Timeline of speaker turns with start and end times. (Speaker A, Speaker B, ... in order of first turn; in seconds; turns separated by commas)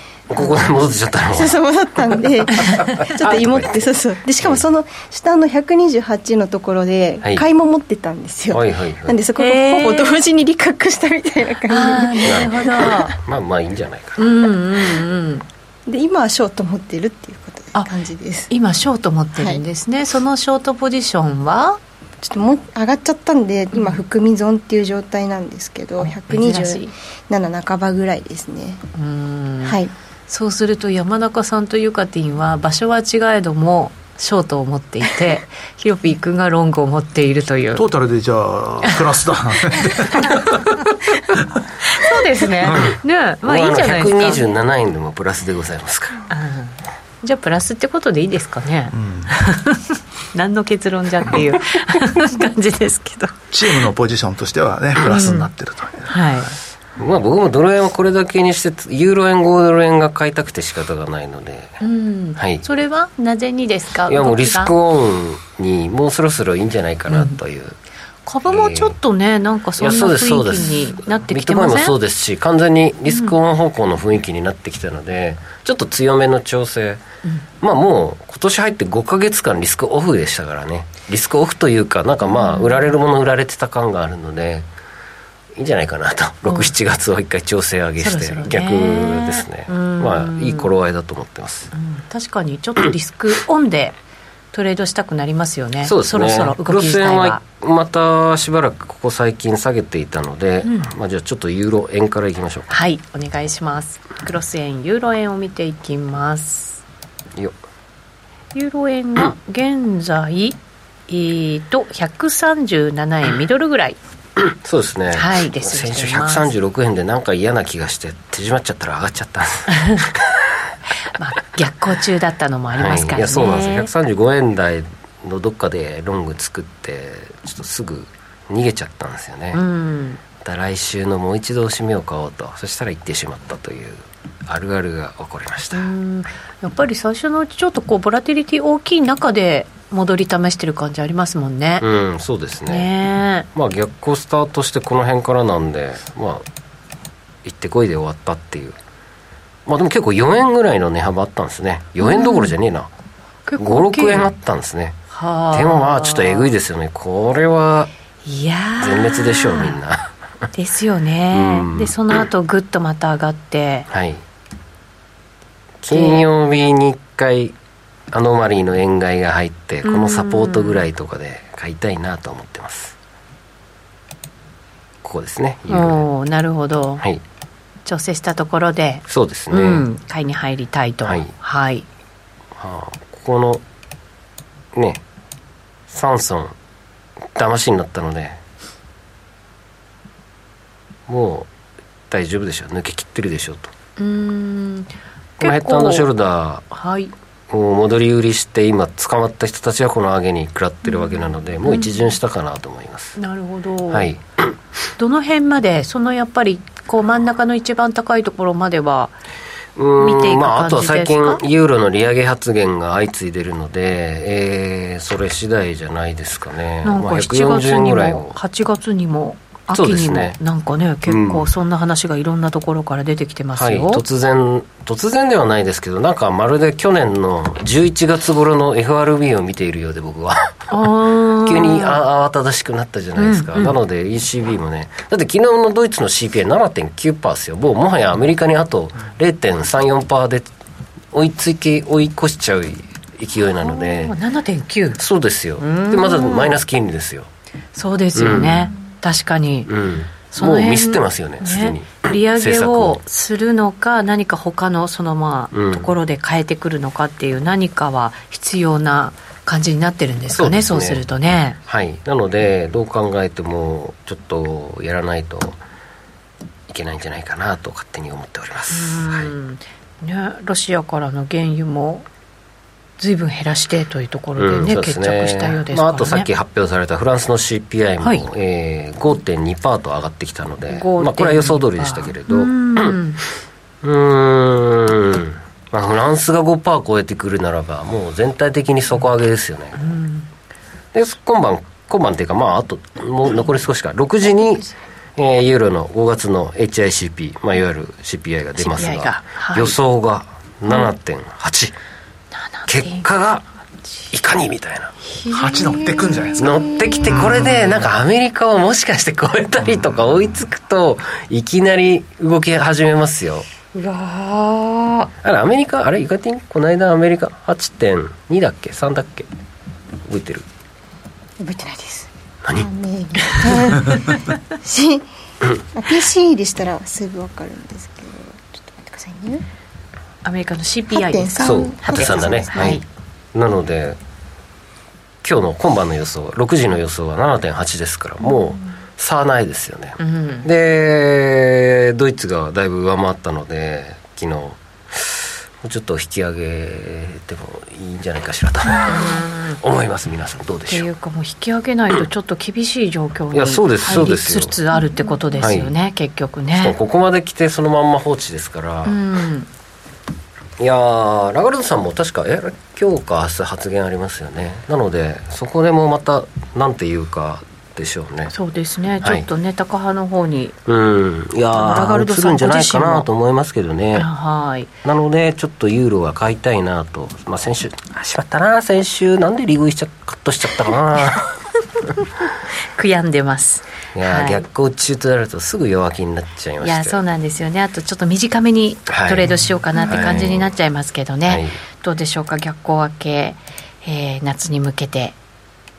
Speaker A: 0.3-1.6, Speaker B: 0.3-12.5, Speaker A: 2.6-3.8, Speaker A: 8.5-9.2, Speaker C: 9.4-10.2, Speaker C: 11.7-13.2, Speaker A: 12.2-14.3, Speaker C: 14.2-15.4, Speaker B: 15.9-18.5, Speaker C: 18.5-21.8, Speaker B: 19.4-19.6, Speaker B: 22.2-28.8, Speaker C: 26.0-26.9, Speaker C: 28.9-37.9, Speaker B: 29.6-29.9, Speaker D: 37.8-41.6, Speaker C: 39.7-40.5, Speaker C: 41.8-44.4, Speaker A: 42.8-46.3, Speaker C: 46.3-53.4, Speaker D: 48.9-49.3, Speaker D: 53.5-56.1, Speaker C: 55.1-55.5, Speaker C: 56.1-56.5, Speaker A: 57.0-61.8, Speaker C: 61.8-64.7, Speaker A: 62.4-62.6, Speaker A: 64.1-67.8, Speaker C: 67.1-67.4, Speaker C: 68.3-72.0, Speaker A: 68.5-69.0, Speaker A: 69.8-77.0, Speaker C: 73.1-73.3, Speaker A: 77.6-84.7, Speaker C: 82.2-82.9, Speaker A: 85.5-91.7, Speaker C: 86.5-86.7, Speaker C: 88.0-90.7, Speaker C: 91.7-94.0, Speaker C: 94.5-97.4, Speaker A: 95.8-102.8, Speaker C: 100.6-100.9, Speaker C: 102.7-106.8, Speaker C: 108.5-110.6, Speaker C: 111.1-114.0, Speaker A: 114.4-120.4, Speaker C: 115.1-116.5, Speaker C: 119.7-120.0, Speaker C: 121.1-123.9, Speaker A: 122.7-129.6, Speaker C: 129.5-130.2, Speaker A: 130.4-135.9, Speaker C: 135.7-141.9, Speaker A: 141.8-142.9, Speaker C: 142.7-143.5, Speaker A: 143.6-146.4, Speaker A: 147.4-148.8, Speaker A: 149.7-152.9, Speaker C: 152.0-152.5, Speaker C: 153.5-154.3, Speaker A: 153.6-155.0, Speaker C: 155.1-156.5, Speaker A: 155.5-157.9, Speaker C: 158.2-159.8, Speaker A: 158.8-160.1, Speaker C: 160.5-163.9, Speaker A: 161.3-162.0, Speaker A: 163.9-164.2, Speaker A: 165.8-167.6, Speaker C: 165.9-166.3, Speaker A: 168.1-173.0, Speaker C: 169.8-170.8, Speaker A: 175.0-176.1, Speaker C: 175.7-177.0, Speaker C: 177.9-181.9, Speaker A: 179.1-179.9, Speaker A: 181.0-181.3, Speaker A: 182.6-183.6, Speaker A: 184.7-185.0, Speaker A: 185.9-186.6, Speaker A: 187.3-188.4, Speaker A: 191.1-191.5, Speaker A: 192.1-193.7, Speaker C: 194.0-196.1, Speaker A: 195.4-196.7, Speaker C: 196.7-197.1, Speaker A: 197.5-203.2, Speaker C: 200.9-202.0, Speaker C: 203.2-204.1, Speaker A: 203.9-204.6, Speaker C: 205.0-209.1, Speaker A: 209.8-218.4, Speaker C: 210.0-211.4, Speaker C: 216.8-224.0, Speaker A: 219.7-220.4, Speaker A: 221.1-221.5, Speaker A: 223.6-230.7, Speaker C: 230.7-232.0, Speaker A: 231.4-240.5, Speaker C: 233.2-233.8, Speaker A: 241.1-244.2, Speaker C: 243.6-245.0, Speaker A: 245.0-247.3, Speaker C: 245.6-246.6, Speaker C: 247.8-249.7, Speaker A: 248.2-248.7, Speaker A: 249.7-253.0, Speaker C: 250.3-261.6, Speaker A: 255.5-255.9, Speaker A: 260.3-261.0, Speaker A: 261.6-265.6, Speaker A: 266.7-269.3, Speaker C: 268.7-272.1, Speaker C: 273.0-276.3, Speaker A: 274.4-283.0, Speaker C: 280.7-283.2, Speaker A: 283.8-290.0, Speaker C: 289.8-290.3, Speaker A: 290.9-301.8, Speaker C: 298.6-299.8, Speaker C: 302.3-303.1, Speaker A: 302.7-303.5, Speaker A: 304.1-304.9, Speaker C: 305.1-307.3, Speaker D: 305.3-306.5, Speaker A: 306.4-313.5, Speaker D: 307.1-307.8, Speaker C: 313.7-315.1, Speaker A: 315.2-319.3, Speaker A: 320.1-320.5, Speaker B: 321.4-329.4, Speaker C: 330.2-332.8, Speaker B: 330.9-332.8, Speaker A: 331.4-332.8, Speaker A: 333.3-334.0, Speaker A: 335.2-350.9, Speaker C: 340.0-340.5, Speaker C: 348.8-349.6, Speaker C: 350.7-356.8, Speaker A: 353.3-354.6, Speaker A: 355.4-355.7, Speaker A: 356.6-359.0, Speaker C: 358.9-359.5, Speaker A: 360.6-368.3, Speaker C: 368.3-370.6, Speaker A: 369.0-369.3, Speaker A: 370.7-374.1, Speaker C: 371.6-373.1, Speaker C: 373.9-374.7, Speaker A: 374.8-381.3, Speaker C: 382.7-384.4, Speaker A: 383.9-387.0, Speaker C: 386.6-395.2, Speaker A: 388.9-390.5, Speaker A: 391.3-391.6